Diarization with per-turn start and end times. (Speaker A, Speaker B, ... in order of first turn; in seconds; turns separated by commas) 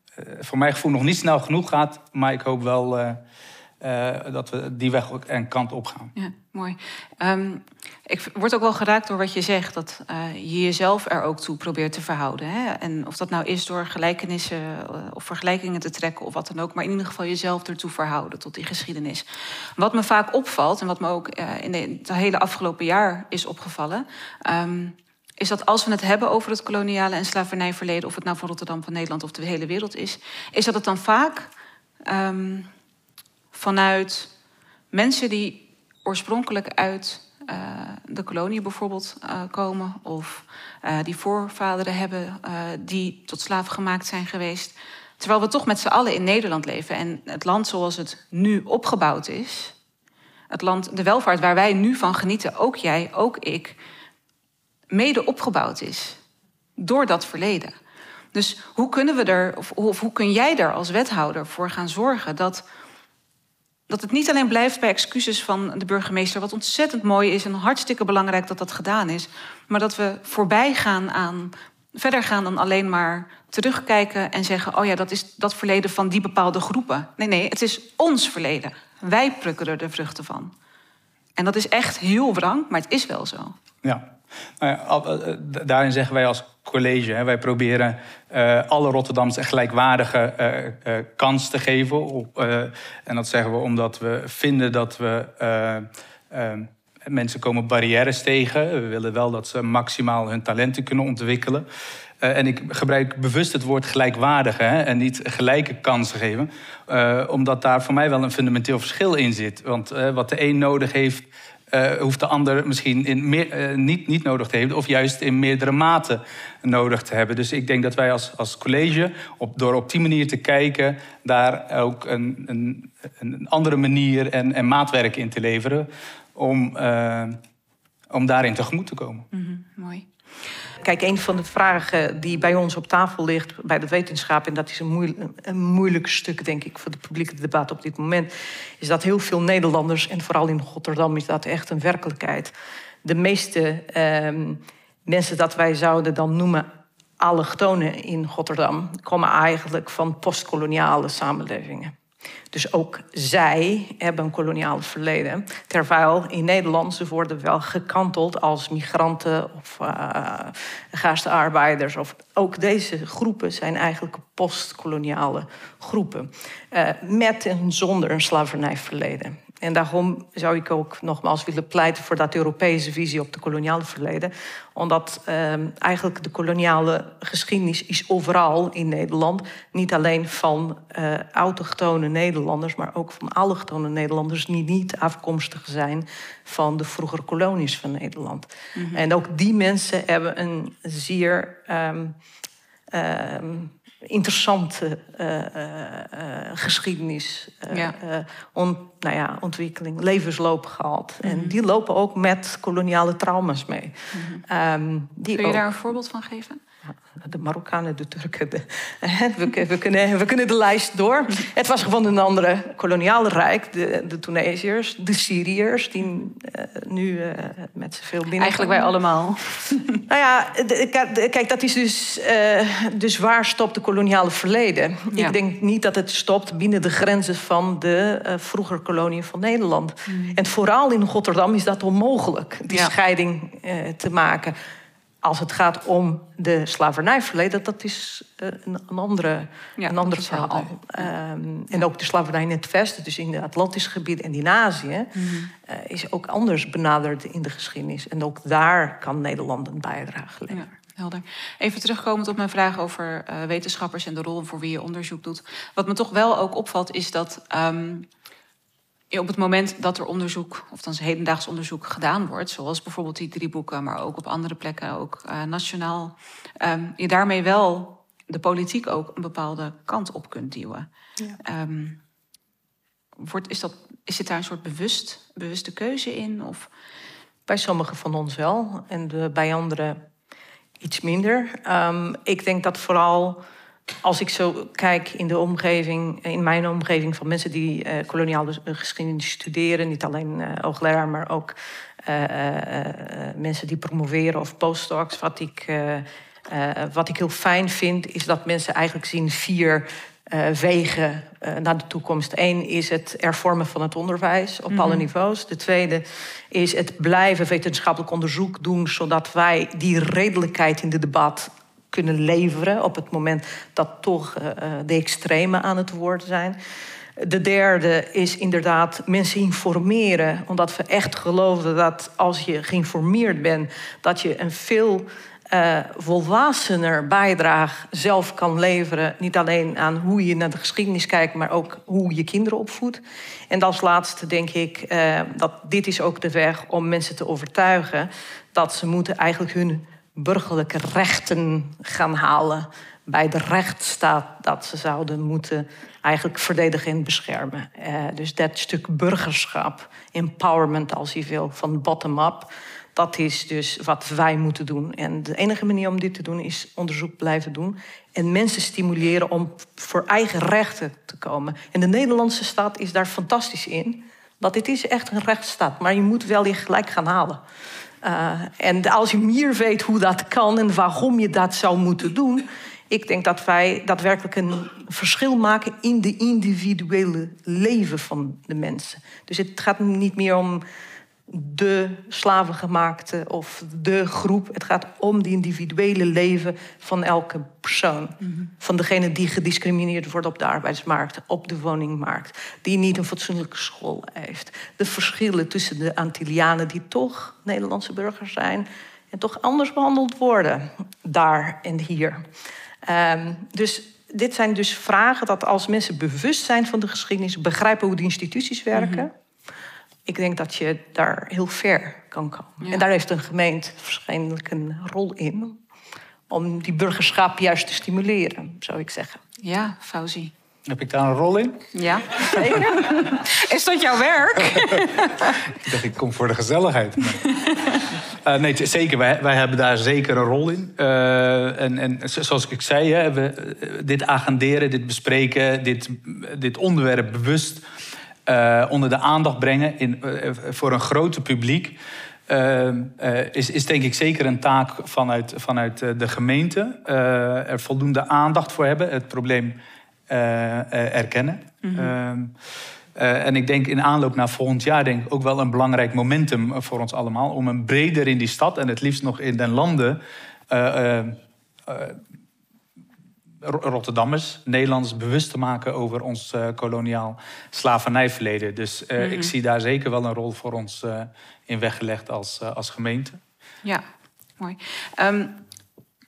Speaker A: 0.2-3.2, Speaker A: 3.8-6.1, Speaker B: 6.2-19.2, Speaker B: 19.8-31.5, Speaker B: 32.1-32.7, Speaker B: 33.5-34.3, Speaker B: 34.9-49.8, Speaker B: 50.5-53.8, Speaker B: 54.9-56.2, Speaker B: 56.8-57.7, Speaker B: 58.3-62.6, Speaker B: 63.9-80.5, Speaker B: 81.4-83.5, Speaker A: 83.8-84.1, Speaker A: 84.6-101.7, Speaker A: 102.2-127.4, Speaker A: 128.1-129.3, Speaker B: 129.3-130.1, Speaker C: 130.8-142.5, Speaker C: 143.0-146.7, Speaker C: 147.2-151.9, Speaker C: 152.5-192.2, Speaker B: 188.8-189.0, Speaker C: 192.9-205.7, Speaker B: 197.7-198.0, Speaker B: 201.2-201.6, Speaker B: 204.1-204.4, Speaker B: 205.3-206.6, Speaker C: 206.9-218.9, Speaker B: 218.4-220.0, Speaker C: 220.1-234.5, Speaker B: 230.1-230.4, Speaker C: 235.2-250.7, Speaker B: 239.8-241.1, Speaker B: 245.2-245.5, Speaker B: 250.5-258.1, Speaker B: 259.1-270.9, Speaker B: 271.4-272.0, Speaker B: 273.2-276.7, Speaker C: 277.5-280.1, Speaker C: 280.8-283.4, Speaker C: 284.0-316.6, Speaker B: 304.7-305.1, Speaker C: 317.2-367.4, Speaker C: 368.0-380.6, Speaker C: 381.3-402.3, Speaker C: 402.8-409.1, Speaker B: 408.8-409.1, Speaker C: 410.1-415.6, Speaker C: 416.3-419.2, Speaker B: 419.4-420.3, Speaker A: 420.7-421.7, Speaker B: 421.7-425.4, Speaker A: 422.2-422.6, Speaker A: 425.6-427.3, Speaker B: 427.2-427.8, Speaker A: 428.2-437.6, Speaker A: 438.3-449.6, Speaker A: 450.1-452.3, Speaker B: 451.6-451.9, Speaker A: 453.0-462.0, Speaker A: 463.4-473.2, Speaker B: 469.0-469.3, Speaker B: 474.4-475.4